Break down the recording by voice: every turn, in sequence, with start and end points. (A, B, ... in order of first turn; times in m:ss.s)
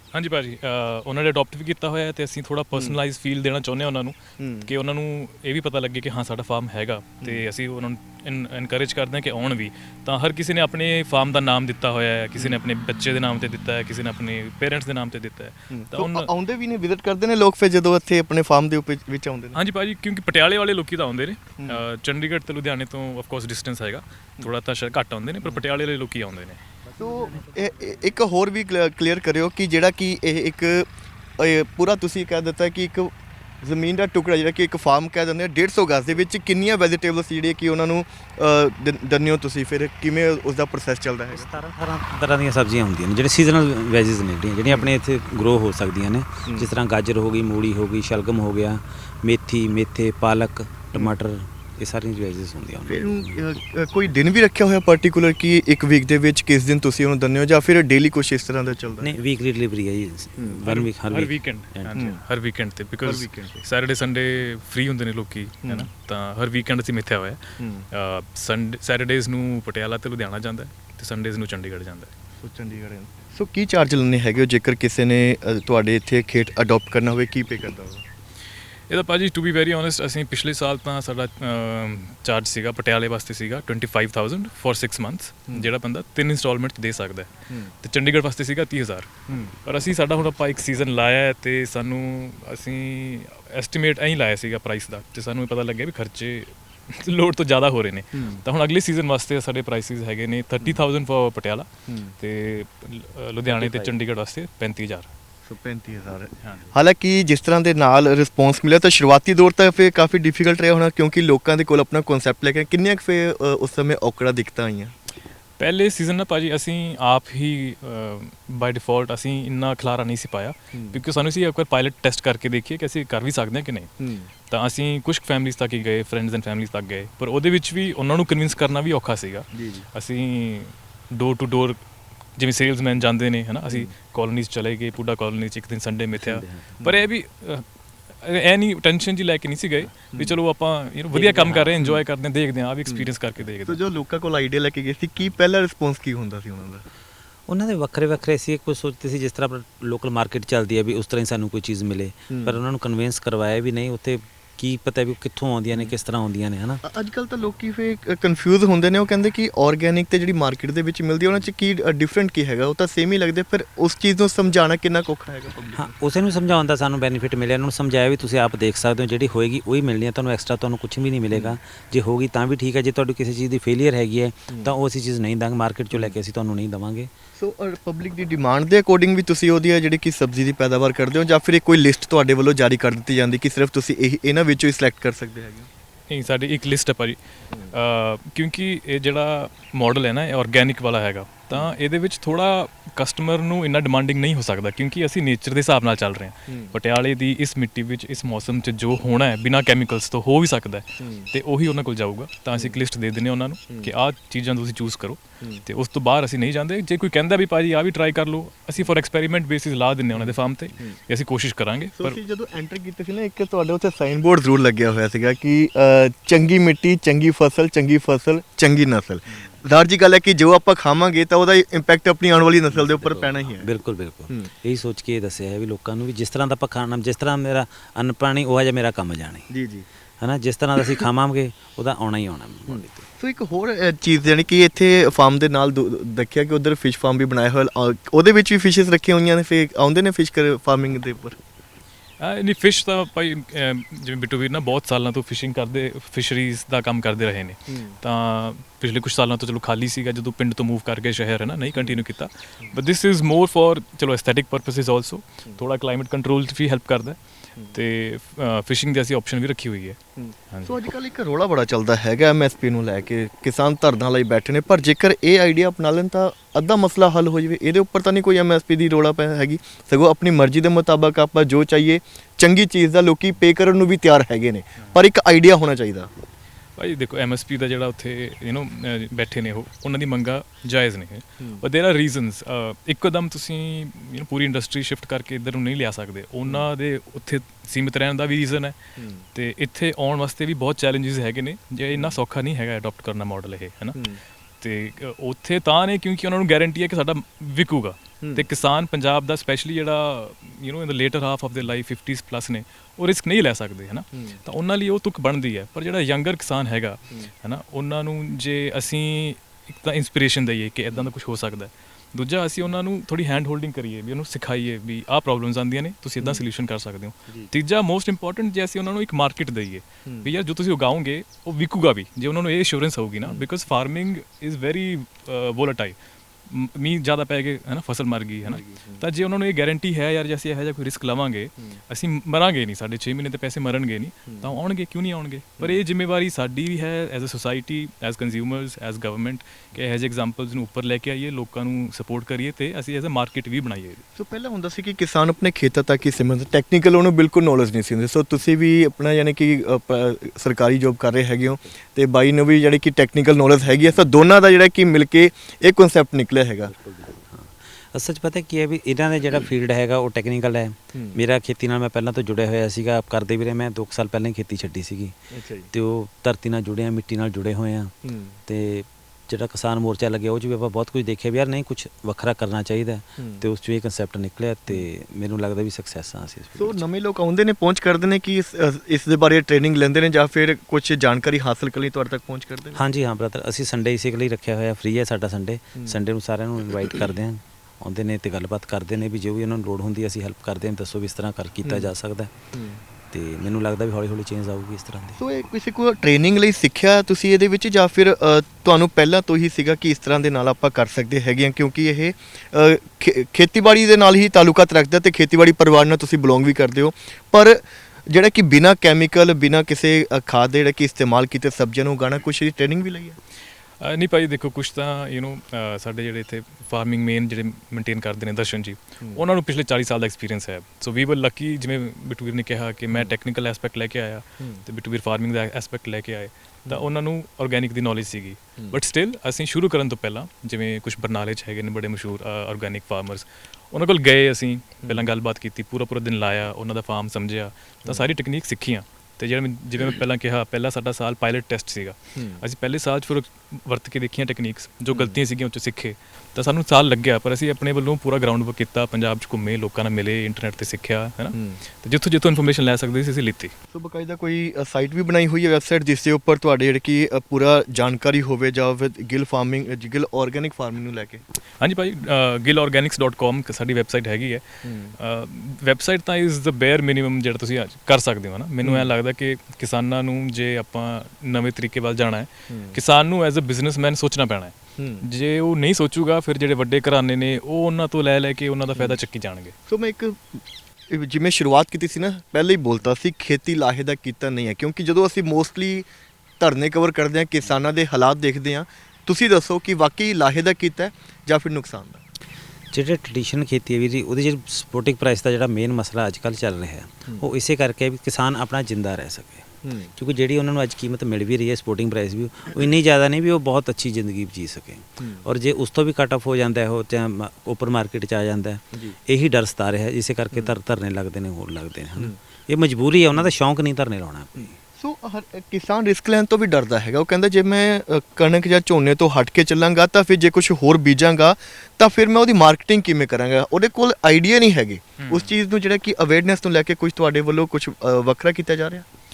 0:00.1-0:16.3 A
0:02.8-0:03.0 B
0:04.4-0:04.7 B
0:15.7-0:19.6 B
0:19.6-0:26.6 A
0:27.0-0:41.5 B
0:41.3-0:53.4 C
0:52.9-0:59.2 B
0:59.0-1:02.1 C
1:00.6-1:12.1 A
1:03.0-1:03.6 B
1:05.6-1:05.9 B
1:07.6-1:07.9 B
1:12.4-1:18.0 B
1:18.9-1:41.7 A
1:29.3-1:29.5 B
1:38.1-1:38.4 B
1:41.9-1:42.1 B
1:42.2-1:45.1 A
1:43.6-1:43.9 B
1:45.5-1:54.9 B
1:46.4-1:46.7 A
1:55.6-2:03.9 A
2:00.7-2:01.0 B
2:04.0-2:04.3 B
2:04.5-2:11.8 A
2:09.5-2:09.9 B
2:12.4-2:17.6 A
2:16.1-2:16.7 C
2:16.8-2:17.1 B
2:18.2-2:23.8 A
2:20.1-2:20.4 B
2:21.1-2:21.9 C
2:22.9-2:23.1 B
2:23.6-2:26.8 B
2:27.5-2:36.8 C
2:32.3-2:32.6 B
2:36.8-2:45.9 B
2:45.7-2:57.1 C
2:57.4-3:05.7 B
3:06.1-3:07.2 A
3:07.7-3:32.2 A
3:16.5-3:16.8 B
3:21.0-3:21.3 B
3:22.5-3:22.8 B
3:30.1-3:31.0 B
3:32.0-3:43.7 B
3:42.7-3:49.5 C
3:49.5-3:49.9 B
3:50.2-3:53.0 C
3:52.7-4:01.4 B
4:02.2-4:17.2 A
4:07.7-4:08.0 B
4:11.8-4:12.0 B
4:17.7-4:20.0 A
4:20.2-4:36.1 B
4:20.5-4:20.8 A
4:36.8-4:48.8 A
4:49.0-4:49.2 B
4:49.4-5:26.0 A
4:58.2-4:58.5 B
5:04.1-5:04.4 B
5:16.2-5:16.5 B
5:20.0-5:20.3 B
5:26.5-5:44.0 A
5:28.5-5:29.0 B
5:34.3-5:34.5 B
5:44.1-5:56.7 B
5:57.3-6:05.2 C
6:05.3-6:05.7 B
6:05.7-6:07.9 C
6:08.0-6:08.4 B
6:08.5-6:16.8 C
6:13.2-6:13.4 B
6:16.6-6:22.8 B
6:22.8-6:32.3 C
6:31.6-6:31.9 B
6:32.5-6:32.8 B
6:33.1-6:35.2 C
6:35.2-6:53.2 B
6:53.8-7:33.5 A
7:14.8-7:15.1 B
7:22.2-7:22.4 B
7:24.9-7:25.2 B
7:31.3-7:31.6 B
7:33.7-7:41.2 B
7:41.6-7:44.4 A
7:44.6-7:44.9 B
7:45.0-7:59.5 A
7:48.6-7:48.9 B
7:52.5-7:52.8 B
7:54.8-7:55.0 B
7:59.7-8:05.9 B
8:06.4-8:12.0 B
8:12.7-8:34.5 C
8:19.6-8:19.9 B
8:25.0-8:25.2 B
8:34.4-8:48.8 B
8:45.0-8:45.3 A